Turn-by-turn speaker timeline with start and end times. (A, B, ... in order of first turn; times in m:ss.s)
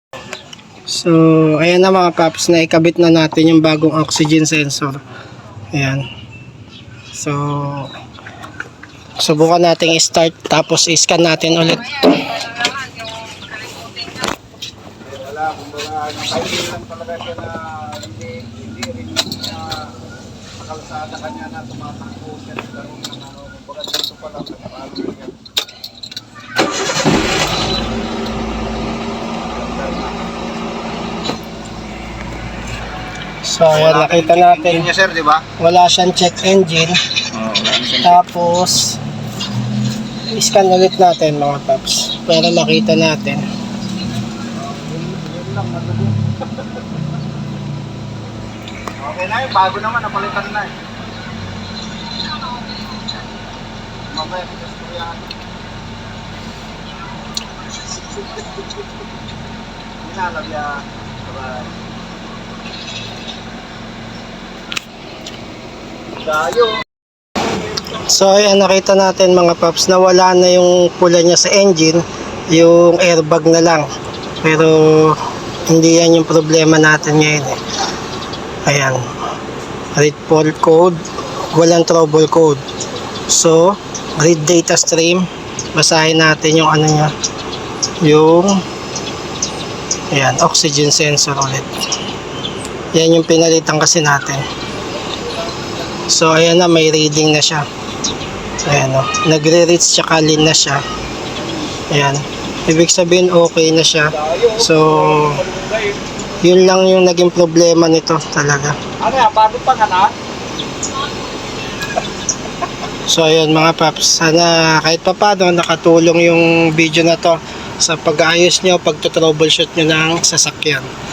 0:00.9-0:05.0 A
0:05.7-0:06.1 A
0:07.1-0:08.0 A
0:09.2-0:12.7 A
0:15.0-0:19.9 B
0:20.6-0:25.4 B
0:29.5-0:30.2 B
0:33.4-0:34.9 A
0:33.7-0:35.4 B
0:35.6-0:37.0 A
0:37.3-0:38.2 B
0:38.0-0:39.0 A
0:40.3-0:43.4 A
0:44.8-0:46.2 B
0:49.0-0:50.8 B
0:54.1-0:55.3 B
1:00.0-1:01.8 B
1:06.2-1:06.8 B
1:07.9-1:13.9 A
1:14.4-1:17.6 A
1:18.7-1:19.0 A
1:20.0-1:21.0 A
1:21.5-1:22.6 A
1:23.3-1:27.1 A
1:28.0-1:28.6 A
1:30.1-1:31.7 A
1:32.9-1:34.4 A
1:36.1-1:37.7 A
1:38.6-1:40.8 A
1:41.9-1:45.5 A
1:44.2-1:46.0 B
1:46.4-1:48.8 A
1:49.0-1:50.1 B
1:53.1-2:00.9 A